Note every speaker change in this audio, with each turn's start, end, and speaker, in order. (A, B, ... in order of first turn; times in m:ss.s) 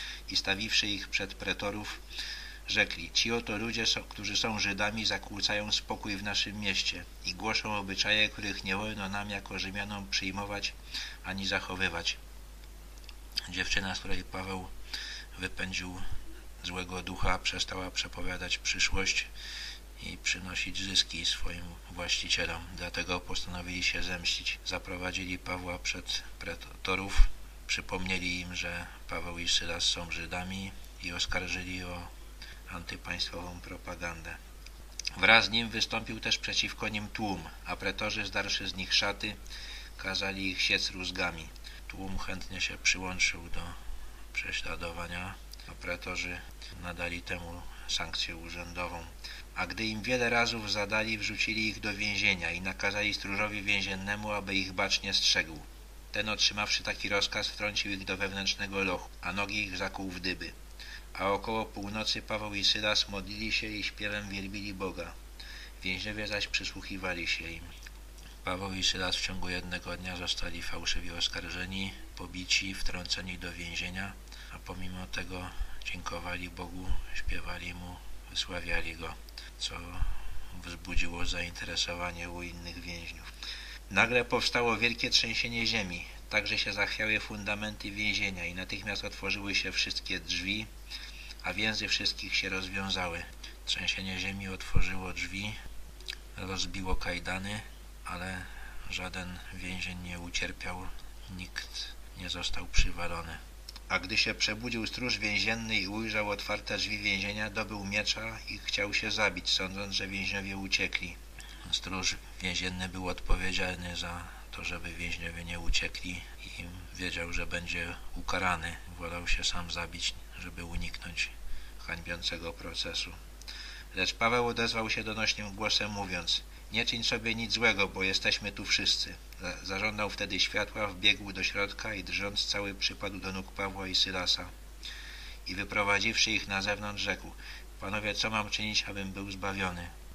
0:00.3-0:02.0 A
0:02.7-0:12.2 A
0:13.5-0:14.7 A
0:15.3-0:16.1 A
0:16.6-0:19.3 A
0:20.0-0:32.1 A
0:32.7-0:34.4 A
0:35.2-0:39.4 A
0:40.0-0:43.8 A
0:44.3-1:00.6 A
1:01.1-1:05.2 A
1:05.8-1:07.7 A
1:08.4-1:23.3 A
1:23.9-1:30.7 A
1:31.4-1:35.6 A
1:36.4-2:03.2 A
2:03.9-2:14.5 A
2:15.5-2:19.9 A